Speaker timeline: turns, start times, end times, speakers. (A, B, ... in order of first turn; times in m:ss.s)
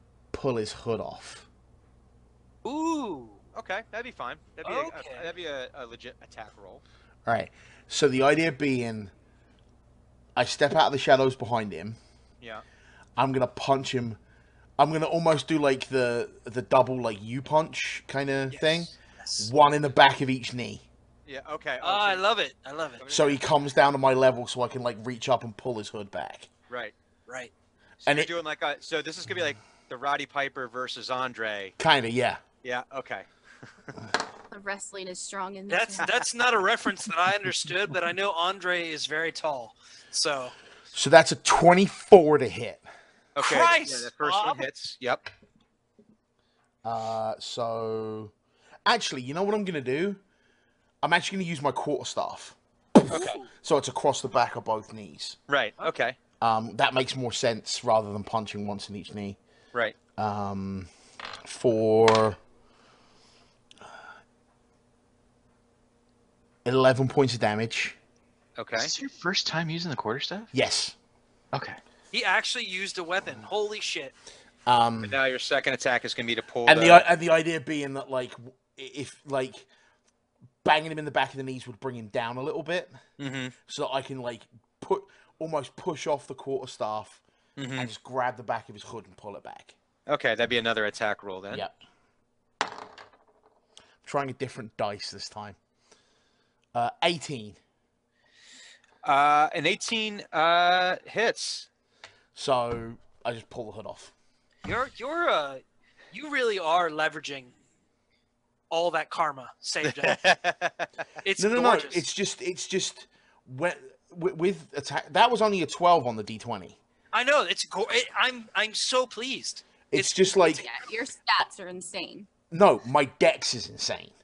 0:00.3-0:01.5 A
0:02.6-0:03.4 B
0:03.6-0:06.8 C
0:04.6-0:05.3 B
0:07.3-0:09.1 A
0:10.4-0:12.0 A
0:13.2-0:14.2 A
0:14.8-0:20.8 A
0:18.5-0:19.5 B
0:21.3-0:22.2 C
0:21.8-0:23.0 B
0:23.0-0:23.4 C
0:23.1-0:26.5 A
0:26.7-0:26.9 C
0:27.3-0:27.5 B
0:28.0-0:31.8 C
0:28.1-0:28.3 A
0:31.8-0:32.4 A
0:32.6-0:33.3 C
0:34.5-0:36.2 D
0:35.7-0:40.6 B
0:40.9-0:42.8 A
0:43.4-0:45.3 C
0:43.4-0:44.7 B
0:46.8-0:48.3 A
0:48.9-0:50.2 A
0:51.0-0:55.4 A
0:53.1-0:53.4 C
0:53.1-0:53.4 B
0:55.5-0:56.2 C
0:56.4-0:59.4 A
1:00.2-1:00.9 A
1:01.4-1:02.4 A
1:06.6-1:08.0 A
1:08.6-1:08.9 C
1:08.8-1:10.5 E
1:10.5-1:11.0 A
1:11.5-1:11.8 E
1:12.1-1:14.1 B
1:14.7-1:15.2 A
1:15.0-1:17.1 C
1:16.7-1:19.7 A
1:20.6-1:23.0 A
1:23.2-1:23.6 C
1:23.7-1:27.2 A
1:27.6-1:27.9 C
1:27.8-1:29.8 A
1:30.1-1:31.7 C
1:34.0-1:35.6 A
1:36.7-1:37.6 A
1:39.0-1:41.7 C
1:42.4-1:44.1 A
1:44.6-1:47.6 B
1:48.7-1:50.3 B
1:49.9-1:50.9 C
1:51.2-1:52.0 B
1:51.4-1:56.8 A
1:57.1-2:00.1 B
1:59.9-2:00.7 A
2:00.5-2:02.3 D
2:02.5-2:04.2 A